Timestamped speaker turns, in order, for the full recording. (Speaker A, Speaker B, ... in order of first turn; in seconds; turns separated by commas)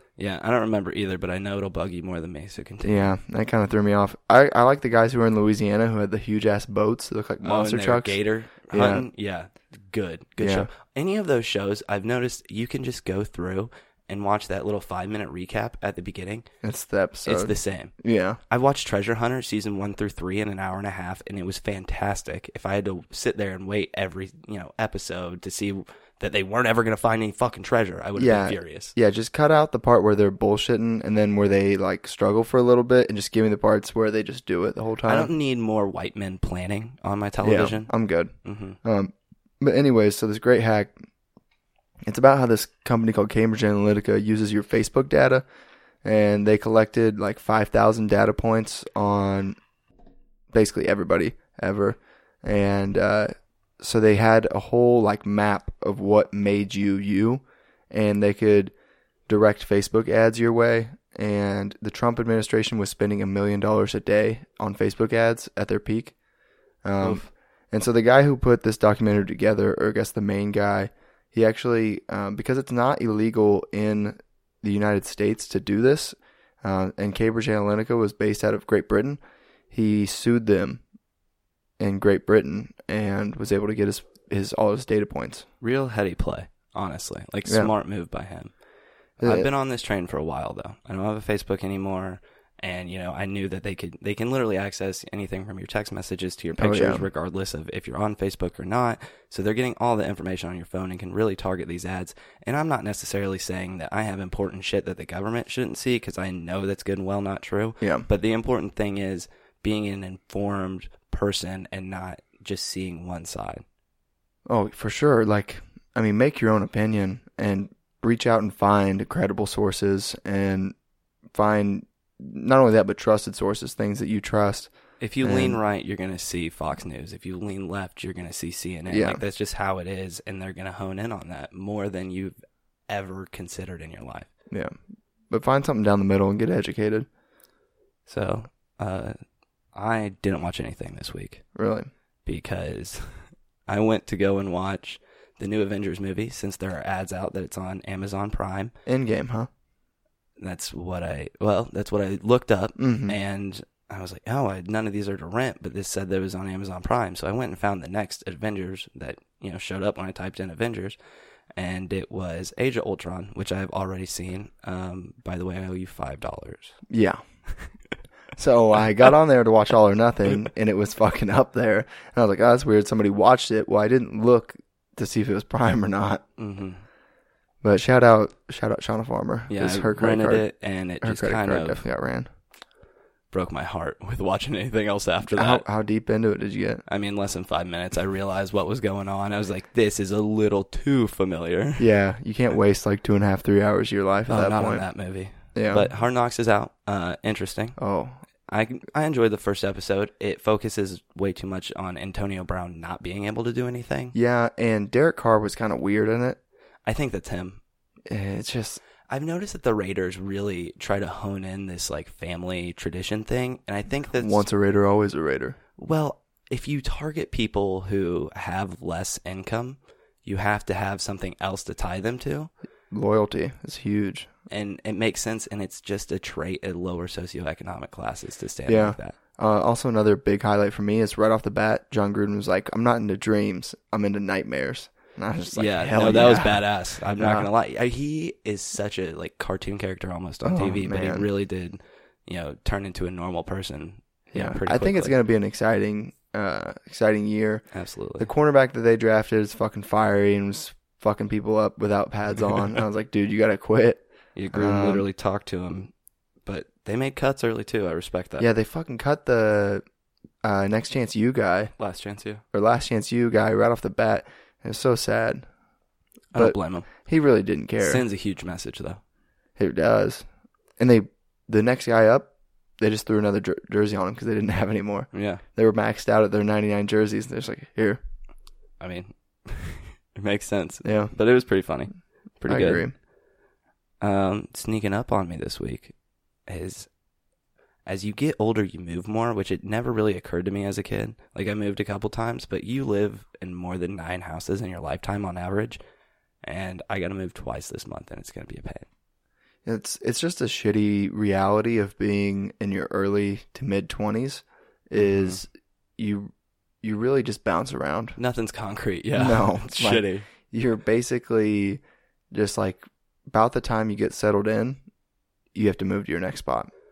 Speaker A: 0.2-3.1, Speaker B: 2.8-8.2, Speaker A: 7.4-16.4, Speaker B: 8.7-9.1, Speaker B: 10.4-10.7, Speaker B: 16.6-18.4, Speaker A: 17.2-17.9, Speaker A: 18.5-28.9, Speaker B: 28.2-35.3, Speaker A: 35.0-37.9, Speaker B: 37.4-40.9, Speaker A: 38.4-38.8, Speaker B: 42.1-45.4, Speaker B: 46.0-49.6, Speaker B: 50.5-58.7, Speaker B: 59.3-66.1, Speaker B: 66.8-79.2, Speaker A: 67.0-67.2, Speaker B: 79.7-80.8, Speaker B: 81.8-85.5, Speaker A: 85.6-88.5, Speaker B: 87.5-87.7, Speaker A: 89.2-113.6, Speaker B: 89.2-89.5, Speaker B: 96.6-97.0, Speaker B: 107.8-108.1, Speaker B: 114.5-120.7, Speaker B: 121.3-125.6, Speaker A: 125.0-132.4, Speaker B: 128.9-129.2, Speaker A: 132.9-134.3, Speaker B: 135.3-137.1, Speaker A: 138.1-139.2, Speaker A: 139.7-141.4, Speaker B: 141.5-141.9, Speaker A: 142.2-148.7, Speaker B: 148.8-149.5, Speaker A: 150.4-161.0, Speaker B: 152.8-153.2, Speaker A: 161.5-166.8, Speaker B: 166.9-167.2, Speaker B: 168.3-176.2, Speaker A: 176.4-176.8, Speaker B: 177.6-180.4, Speaker A: 179.5-181.8, Speaker B: 181.0-182.3, Speaker A: 183.3-185.6, Speaker B: 185.3-186.8, Speaker A: 186.9-191.8, Speaker B: 191.8-194.8, Speaker A: 194.3-197.8, Speaker B: 195.5-195.9, Speaker B: 197.8-198.2, Speaker A: 198.5-204.1, Speaker B: 204.1-206.4, Speaker A: 206.8-207.6, Speaker B: 208.1-208.8, Speaker A: 209.1-214.5, Speaker B: 214.2-215.6, Speaker A: 215.8-222.5, Speaker B: 222.9-224.3, Speaker A: 224.5-229.2, Speaker B: 228.7-237.5, Speaker A: 235.5-245.1, Speaker B: 240.4-241.2, Speaker B: 244.3-247.6, Speaker A: 247.7-248.3, Speaker B: 248.2-255.1, Speaker A: 254.3-255.9, Speaker A: 256.4-258.5, Speaker B: 258.4-259.8, Speaker B: 260.4-261.7, Speaker A: 261.8-262.4, Speaker B: 262.5-265.4, Speaker A: 266.3-266.9, Speaker B: 266.3-268.0, Speaker A: 267.8-269.0, Speaker B: 269.6-270.2, Speaker B: 270.8-278.0, Speaker A: 275.1-275.4, Speaker A: 278.8-282.9, Speaker B: 280.8-281.1, Speaker B: 282.5-282.9, Speaker A: 284.0-285.9, Speaker A: 286.5-286.9, Speaker A: 287.9-295.8, Speaker A: 296.4-298.9, Speaker B: 299.6-306.3, Speaker A: 305.0-305.4, Speaker B: 306.8-308.1, Speaker A: 308.2-310.3, Speaker B: 309.1-314.8, Speaker B: 315.5-316.7